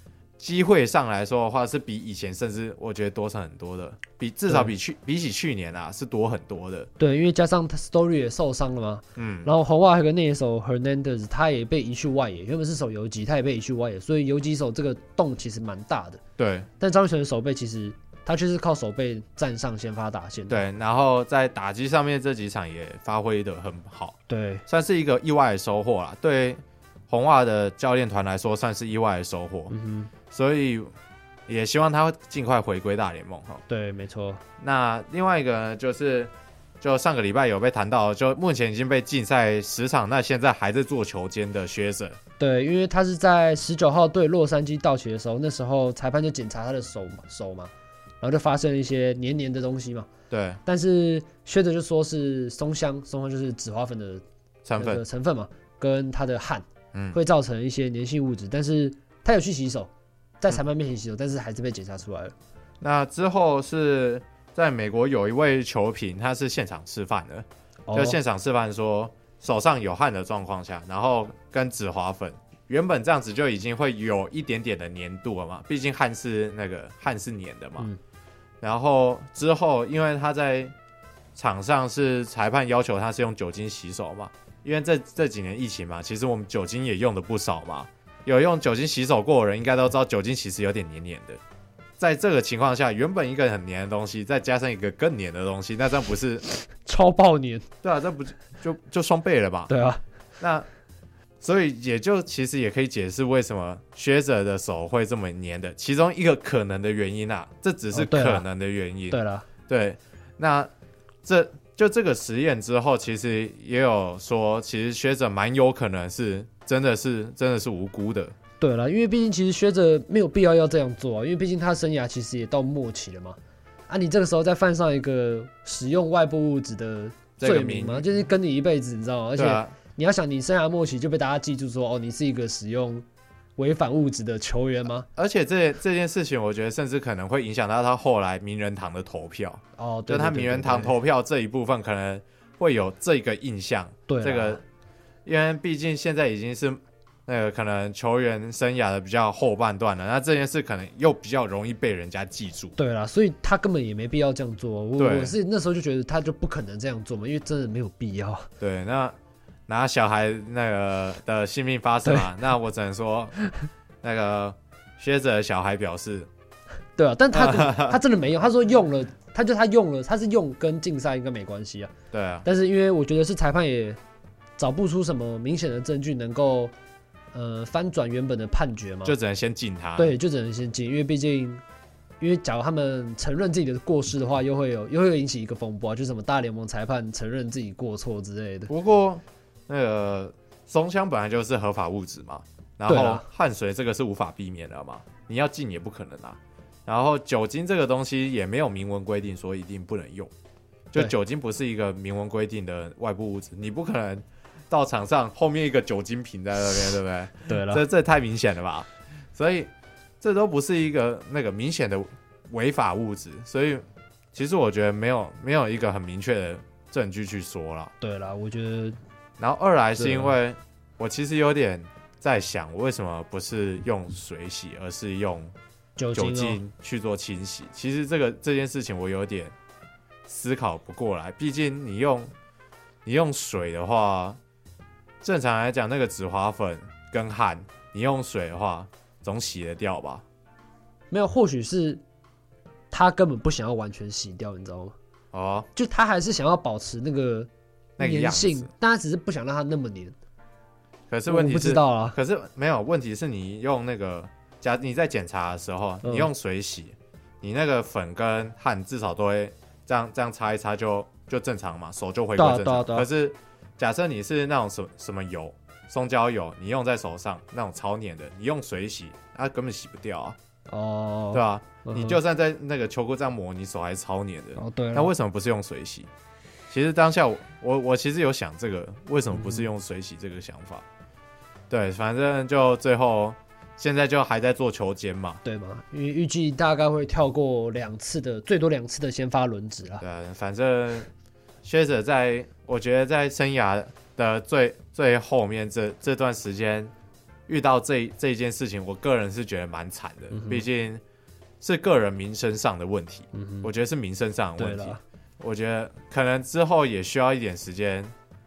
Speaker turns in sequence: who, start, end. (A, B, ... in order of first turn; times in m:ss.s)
0:00.4-0:06.9 A
0:07.0-0:16.2 B
0:09.2-0:09.5 A
0:16.4-0:16.7 A
0:16.8-0:20.6 B
0:20.5-0:29.7 A
0:24.3-0:24.6 B
0:29.7-0:30.1 B
0:30.3-0:30.9 A
0:31.5-0:33.6 A
0:33.7-0:34.4 B
0:34.6-0:42.2 A
0:42.4-0:50.1 B
0:50.3-0:50.6 A
0:50.6-0:54.2 B
0:54.6-0:55.0 A
0:54.8-0:59.9 B
0:56.9-0:57.2 A
1:00.4-1:02.3 B
1:02.8-1:17.9 A
1:07.9-1:08.2 B
1:18.6-1:20.7 A
1:21.3-1:31.4 A
1:32.0-1:36.4 A
1:36.8-1:37.6 B
1:37.8-1:39.7 A
1:39.7-1:40.0 B
1:40.4-1:40.6 A
1:41.4-1:50.7 A
1:47.9-1:48.4 B
1:49.1-1:49.5 B
1:51.2-1:58.3 A
1:58.6-2:03.4 B
2:03.9-2:13.1 B
2:07.4-2:08.1 A
2:09.4-2:09.7 A
2:13.6-2:15.1 B
2:15.1-2:24.6 A
2:19.8-2:21.0 B
2:24.1-2:24.6 B
2:25.2-2:32.8 A
2:32.8-2:38.5 B
2:35.0-2:35.3 A
2:38.6-2:39.2 A
2:39.7-2:43.4 A
2:44.0-2:46.3 A
2:47.0-2:51.9 B
2:47.3-2:48.0 A
2:52.1-2:52.4 A
2:52.4-2:54.0 B
2:54.6-2:56.7 B
2:57.3-2:59.1 B
2:59.0-3:00.1 A
3:00.0-3:01.6 B
3:02.2-3:08.7 B
3:08.7-3:20.3 A
3:12.9-3:13.2 B
3:20.9-3:37.9 A
3:27.5-3:27.8 B
3:38.0-3:39.0 B
3:39.4-3:45.5 A
3:40.0-3:40.3 B
3:46.0-3:46.6 B
3:46.1-3:49.5 A
3:50.2-3:52.3 A
3:53.0-3:54.4 A
3:55.2-4:00.2 A
4:01.1-4:02.0 B
4:02.9-4:04.9 B
4:05.3-4:05.7 A
4:05.8-4:10.2 B
4:08.0-4:08.7 A
4:11.1-4:30.4 A
4:11.3-4:12.2 B
4:16.0-4:16.3 B
4:22.4-4:23.1 B
4:30.7-4:32.2 B
4:31.3-4:36.1 A
4:34.6-4:35.1 B
4:36.7-4:40.8 A
4:39.3-4:39.7 B
4:41.7-4:45.4 A
4:45.4-4:50.0 B
4:50.0-4:51.1 A
4:51.6-4:56.9 A
4:57.5-5:01.0 A
5:00.3-5:00.6 B
5:01.6-5:08.1 A
5:03.3-5:03.7 B
5:04.6-5:05.0 B